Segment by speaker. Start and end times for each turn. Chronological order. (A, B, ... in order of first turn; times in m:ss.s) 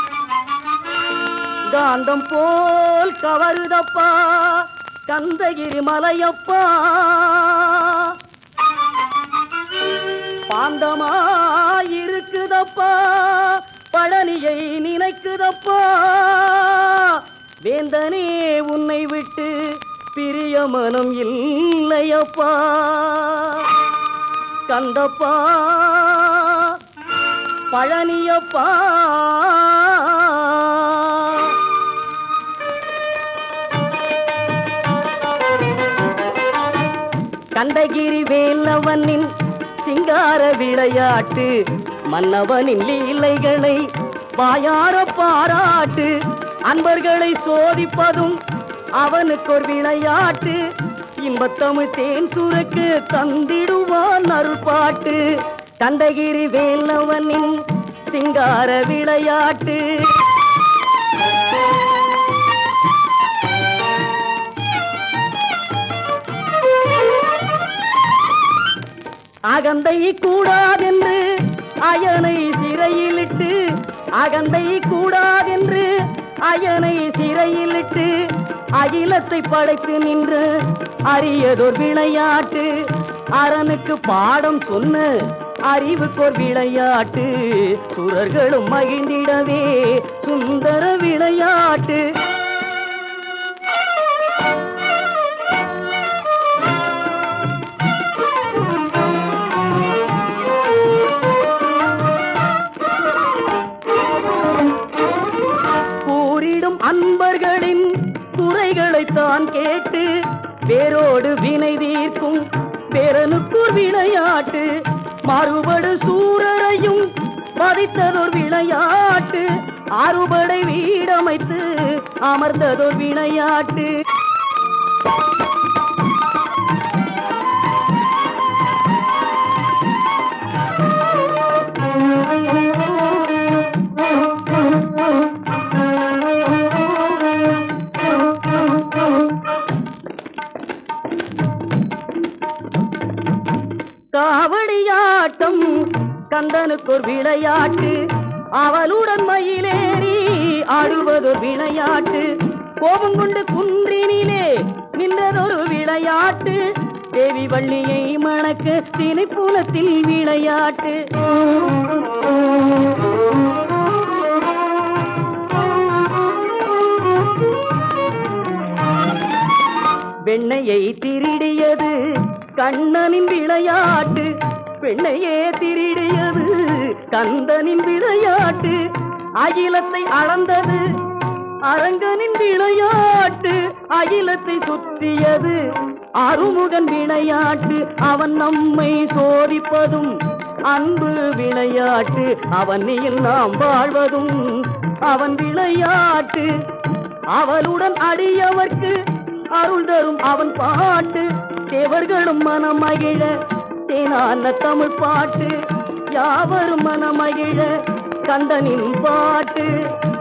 0:01.7-0:08.2 A
0:10.5-0:23.7 A
0:24.7-0:26.8 A
0:27.7-0:31.6 A
0:37.6-0:39.3 A
0:39.8-0:41.5 A
0:42.1-0:43.8 A
0:44.4-0:46.2 A
0:46.7-0:48.4 A
0:49.0-0:50.6 A
0:51.2-0:55.3 A
0:55.8-1:00.2 A
1:09.5-1:11.2 A
1:11.8-1:13.6 A
1:14.2-1:15.9 A
1:16.4-1:20.6 A
1:21.1-1:22.8 A
1:23.3-1:32.0 A
1:46.0-1:50.1 A
1:50.7-2:03.9 A
2:24.1-2:28.0 A
2:28.6-2:41.0 A
2:50.2-2:52.0 A
2:52.6-2:58.8 A
2:59.4-3:00.9 A
3:01.7-3:05.6 A
3:06.2-3:10.2 A
3:10.7-3:16.5 A
3:17.3-3:19.0 A
3:19.5-3:23.3 A
3:23.9-3:25.6 A
3:26.1-3:27.7 A
3:28.3-3:29.8 A